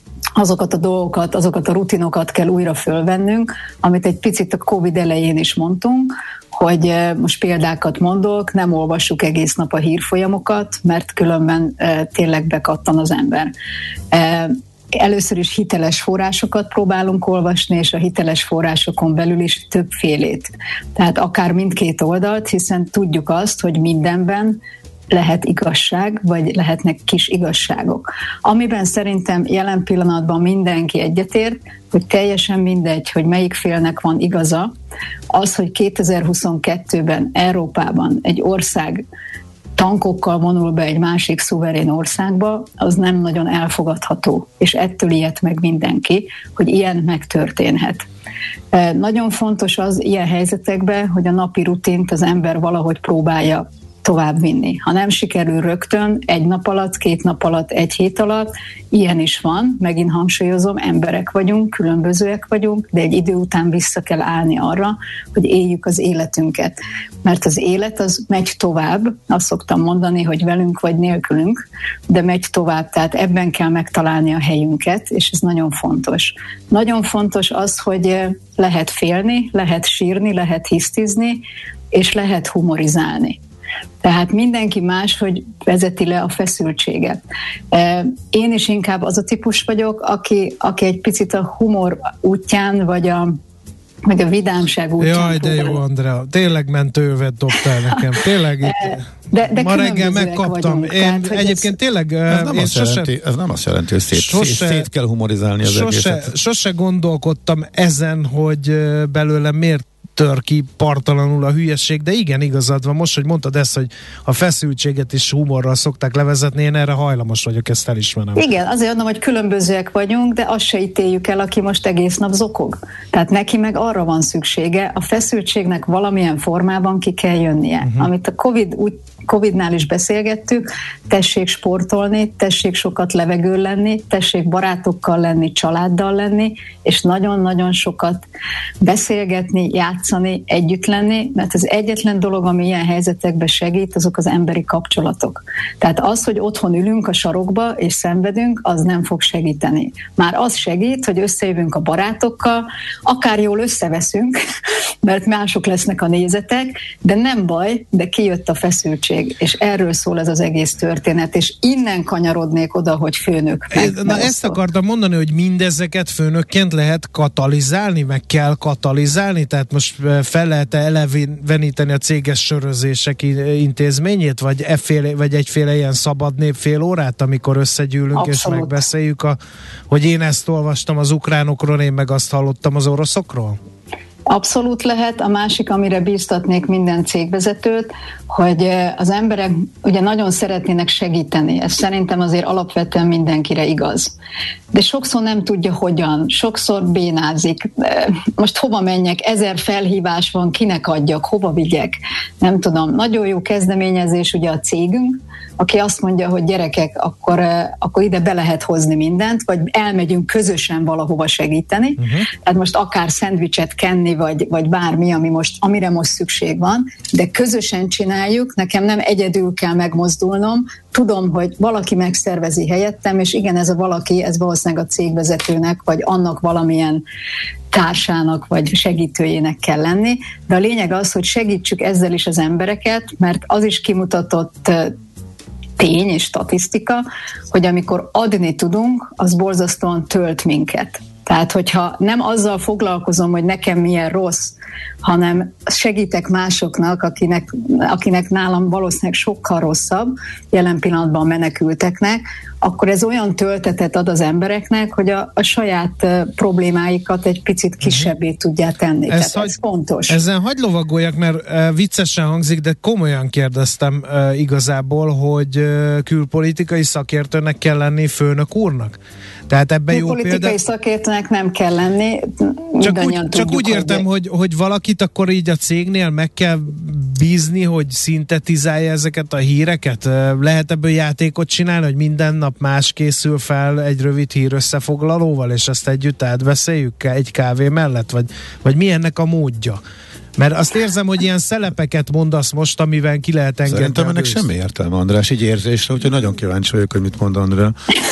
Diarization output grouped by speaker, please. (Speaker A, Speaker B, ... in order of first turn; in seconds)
Speaker A: 0.4-13.5, 14.1-34.7, 35.3-39.0, 39.8-48.0, 48.7-83.4, 84.0-87.2, 87.7-93.4, 94.1-95.8, 98.7-101.8, 118.3-138.2, 138.8-154.4, 155.0-164.6, 178.2-178.8, 184.3-194.1, 194.7-227.0, 227.7-234.9, 235.8-260.2, 269.9-274.0
Speaker B: 95.0-103.1, 104.1-104.9, 105.6-118.4, 127.8-128.1, 163.7-179.4, 179.9-183.6, 212.0-212.3, 257.8-258.1, 259.1-259.6, 260.1-269.0, 269.5-270.6, 272.8-289.8, 290.4-294.5
Speaker C: 102.3-106.3, 293.7-297.8